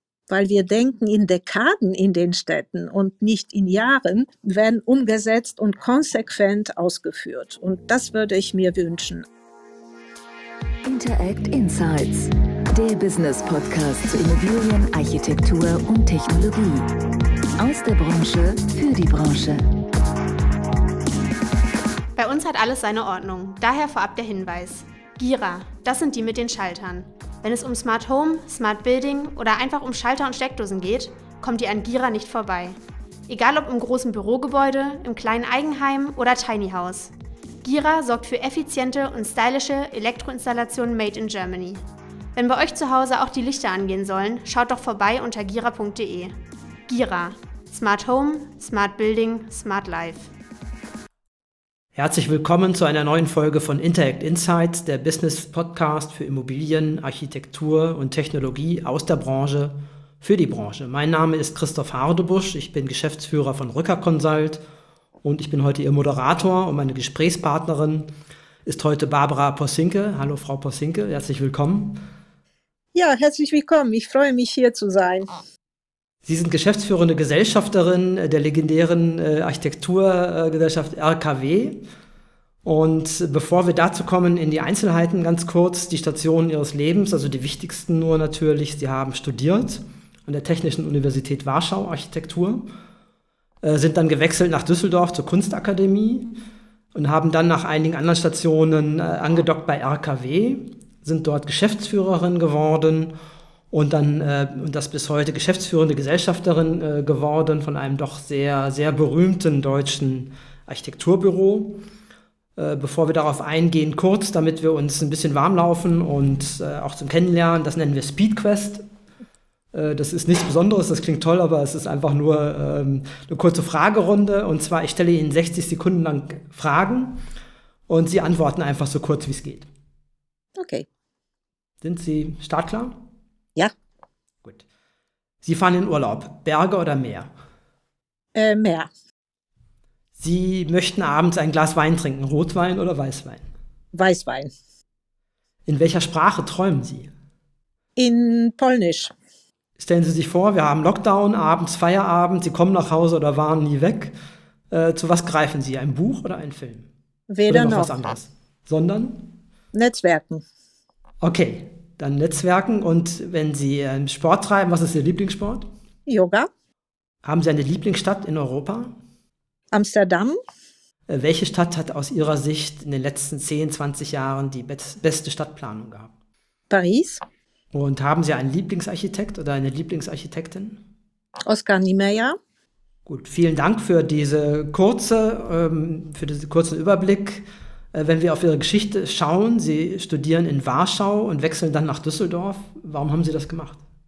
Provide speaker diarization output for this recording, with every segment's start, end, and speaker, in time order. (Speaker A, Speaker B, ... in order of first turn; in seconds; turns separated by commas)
Speaker A: 0.3-9.2, Speaker B: 10.8-16.9, Speaker B: 17.6-19.6, Speaker C: 22.1-32.8, Speaker C: 33.3-37.1, Speaker C: 37.6-41.8, Speaker C: 42.3-46.3, Speaker C: 46.9-50.3, Speaker D: 51.9-64.6, Speaker D: 65.2-68.1, Speaker D: 68.7-72.0, Speaker A: 72.9-75.3, Speaker D: 76.2-81.8, Speaker D: 82.6-92.7, Speaker D: 93.6-96.3, Speaker D: 96.9-103.1, Speaker D: 103.7-111.8, Speaker D: 112.5-118.8, Speaker D: 119.7-127.2, Speaker D: 127.9-129.7, Speaker A: 130.6-130.9, Speaker D: 131.8-133.0, Speaker D: 135.4-137.3, Speaker A: 138.3-138.9, Speaker D: 140.2-143.4, Speaker A: 143.9-144.5, Speaker D: 145.7-147.1, Speaker A: 147.9-149.1, Speaker D: 149.8-154.1, Speaker D: 154.7-156.9, Speaker A: 157.3-157.9, Speaker D: 157.5-159.3, Speaker A: 159.7-160.4, Speaker D: 161.2-165.7, Speaker A: 166.1-166.5, Speaker D: 167.2-168.9, Speaker A: 169.7-170.4, Speaker D: 171.1-176.1, Speaker A: 176.7-177.2, Speaker D: 177.7-180.8, Speaker A: 181.5-182.4, Speaker D: 183.1-193.8